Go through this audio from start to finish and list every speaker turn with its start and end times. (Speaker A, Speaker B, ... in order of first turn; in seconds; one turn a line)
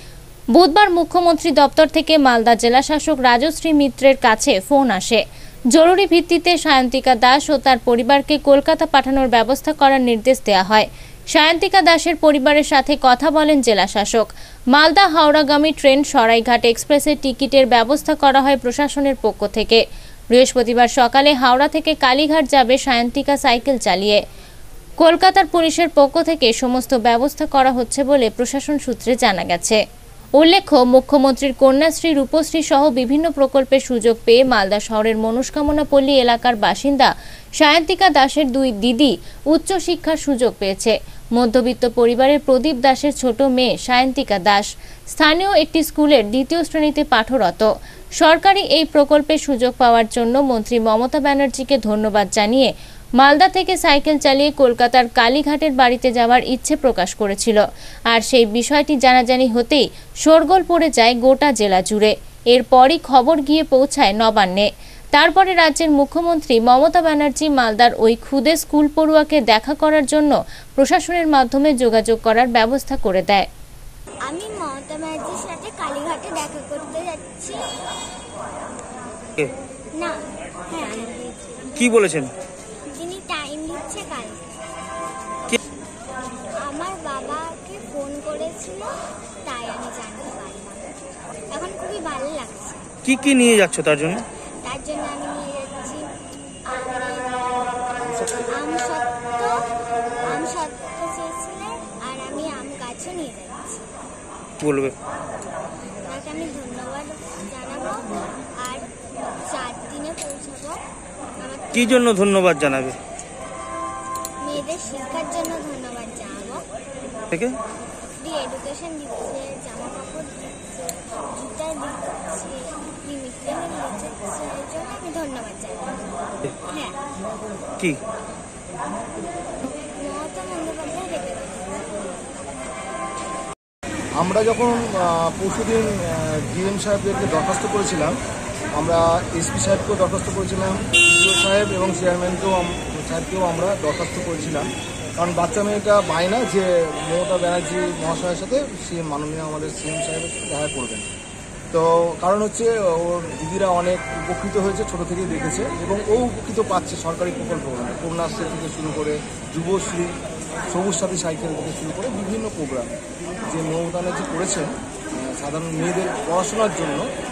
Speaker A: 0.6-5.2
Speaker A: 5.8-19.8
Speaker A: 20.3-24.2
Speaker A: 25.0-29.8
Speaker A: 30.4-73.5
Speaker B: 74.3-77.7
Speaker B: 80.0-81.9
Speaker C: 81.8-82.3
Speaker B: 82.9-84.6
Speaker B: 86.6-88.9
Speaker B: 89.4-90.9
Speaker B: 91.5-92.9
Speaker C: 93.0-94.2
Speaker B: 94.6-96.1
Speaker B: 96.7-97.4
Speaker B: 98.5-99.6
Speaker B: 100.2-104.0
Speaker C: 104.6-105.0
Speaker B: 106.0-108.9
Speaker B: 109.5-110.8
Speaker B: 111.4-112.1
Speaker C: 111.7-113.0
Speaker B: 114.4-116.6
Speaker C: 117.3-117.6
Speaker B: 118.2-126.0
Speaker B: 126.7-127.0
Speaker B: 129.9-132.5
Speaker D: 134.2-138.2
Speaker D: 138.8-151.1
Speaker D: 151.7-160.1
Speaker D: 160.7-162.9
Speaker D: 163.5-167.1